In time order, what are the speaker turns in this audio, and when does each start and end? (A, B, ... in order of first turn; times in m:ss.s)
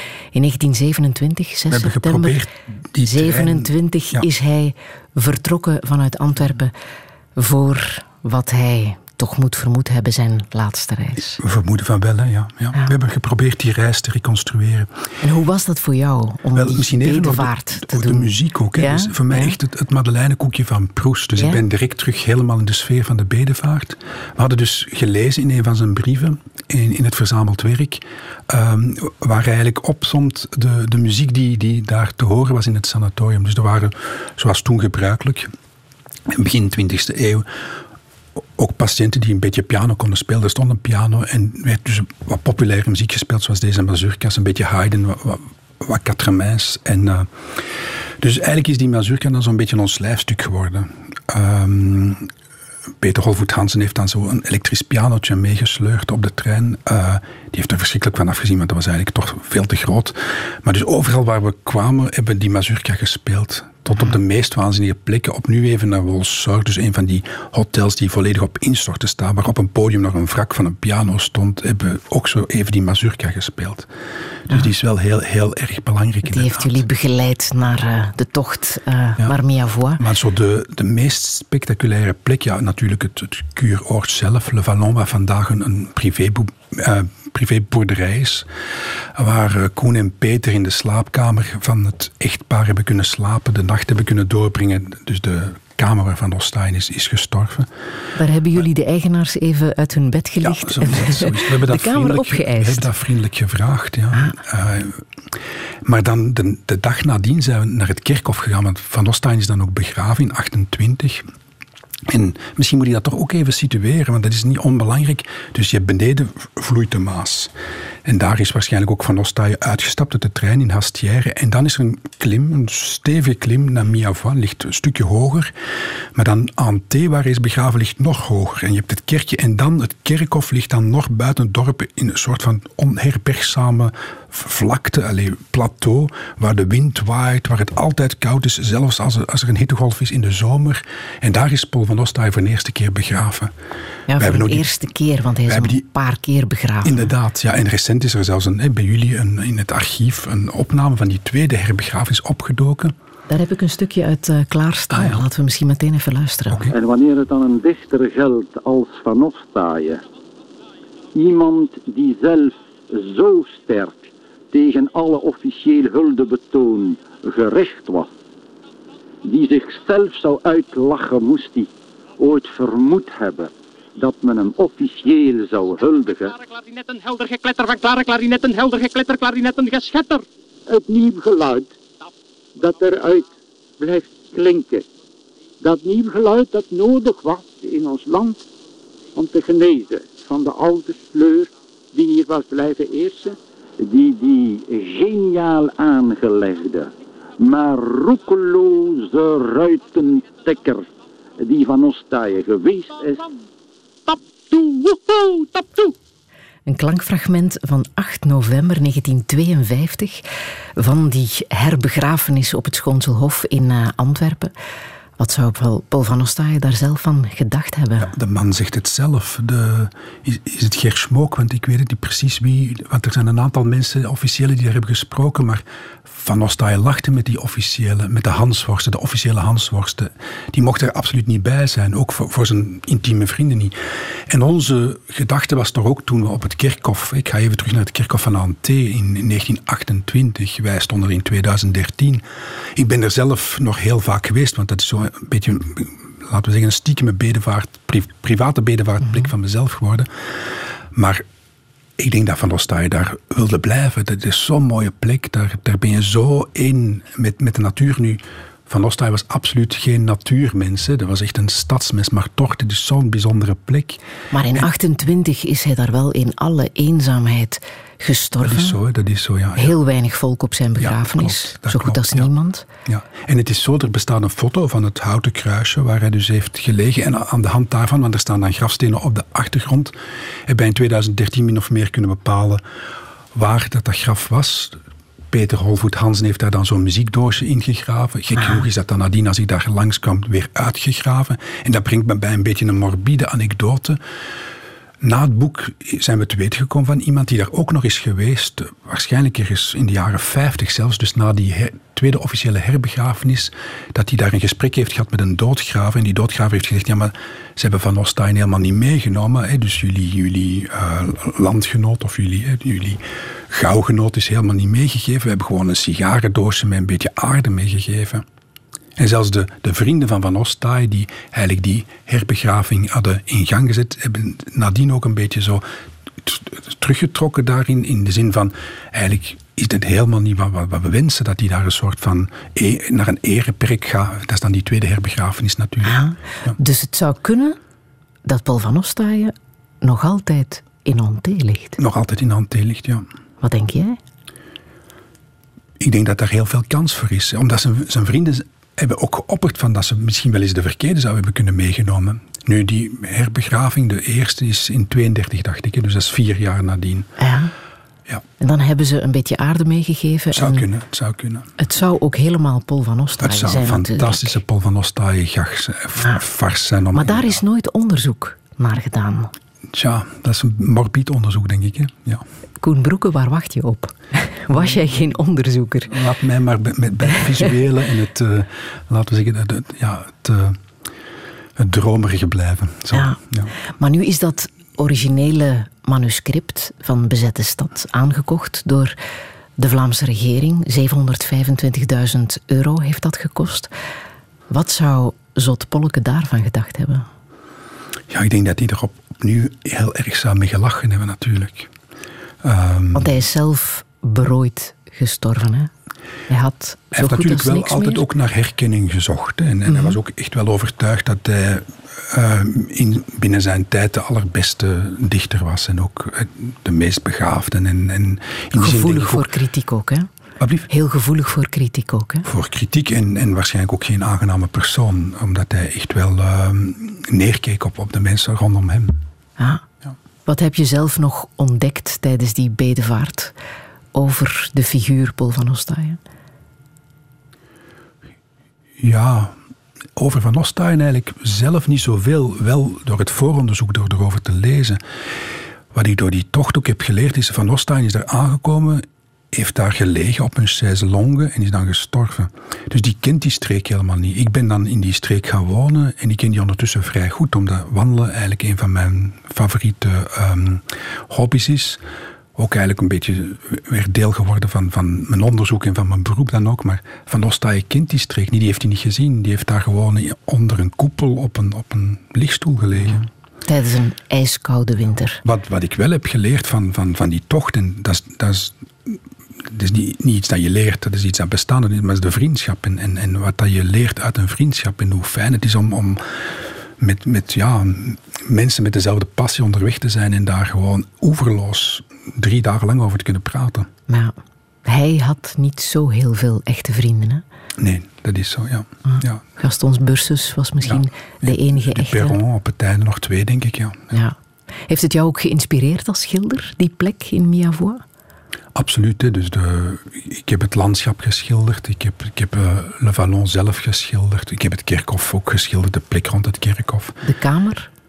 0:00.3-0:02.4 A
0:01.7-0:04.2 B
0:03.0-0:06.7 A
0:07.4-0:11.4 A
0:11.4-0:14.9 B
0:15.2-0:19.6 A
0:16.5-0:35.5 B
0:36.3-0:37.5 B
0:38.6-0:47.7 B
0:48.2-0:52.3 B
0:53.0-1:13.9 B
1:14.5-1:16.8 B
1:16.2-1:20.0 A
1:20.0-1:28.5 B
1:29.1-1:37.7 B
1:38.2-1:42.9 A
1:40.4-1:51.2 B
1:52.0-1:57.5 B
1:58.0-2:05.5 B
2:06.1-2:23.5 B
2:24.1-2:27.1 A
2:24.2-2:24.7 B
2:25.5-2:25.8 B
2:26.8-2:32.9 B
2:33.3-2:36.7 A
2:34.9-2:35.2 B
2:36.5-2:36.7 B
2:36.7-2:40.0 C
2:41.1-2:48.1 C
2:49.2-2:56.3 C
2:56.4-3:00.2 D
3:00.7-3:01.7 C
3:02.6-3:03.3 C
3:03.8-3:04.8 C
3:05.6-3:08.4 C
3:09.1-3:20.9 C
3:21.4-3:23.3 C
3:24.1-3:25.9 C
3:26.6-3:30.2 A
3:30.8-3:34.5 A
3:35.2-3:38.1 A
3:38.0-3:53.7 B
3:54.3-4:11.2 B
4:12.0-4:24.0 B
4:24.3-4:28.8 A
4:28.4-4:29.8 B
4:29.6-4:32.7 A
4:30.8-4:32.3 B
4:32.8-4:39.9 B
4:40.4-4:42.6 B
4:43.3-4:44.8 B
4:45.3-4:54.0 B
4:48.4-4:48.6 A
4:55.0-5:18.2 B
5:19.0-5:25.6 B
5:26.2-5:36.6 B
5:35.8-5:37.6 A
5:38.2-5:41.8 A
5:41.8-5:43.0 B
5:43.4-5:44.0 A
5:45.8-5:57.1 B
5:57.2-5:57.5 A
5:58.4-6:00.6 A
6:00.3-6:01.5 B
6:01.6-6:04.4 A
6:03.2-6:07.4 B
6:06.9-6:09.3 A
6:09.7-6:12.2 B
6:12.6-6:15.9 A
6:14.5-6:14.8 B
6:15.9-6:20.6 B
6:21.6-6:23.5 B
6:22.9-6:23.2 A
6:23.8-6:28.9 A
6:29.6-6:33.7 A
6:34.5-6:37.1 A
6:38.1-6:41.7 B
6:42.4-6:43.2 B
6:42.9-6:45.7 A
6:46.3-6:48.0 A
6:46.9-6:59.3 B
6:49.7-6:49.9 A
6:58.5-7:00.1 A
7:00.4-7:00.7 B
7:00.7-7:02.3 A
7:02.2-7:09.0 B
7:09.4-7:09.6 A
7:10.2-7:13.3 A
7:13.9-7:16.0 A
7:18.8-7:19.3 B
7:20.0-7:24.8 B
7:25.7-7:41.8 B
7:42.3-7:53.0 B
7:52.8-7:55.2 A
7:55.2-8:13.7 B
8:13.9-8:14.1 A
8:14.6-8:17.2 A
8:17.6-8:19.2 B
8:18.8-8:22.2 A
8:20.6-8:24.0 B
8:24.7-8:27.8 A
8:28.5-8:37.0 B
8:37.0-8:37.7 A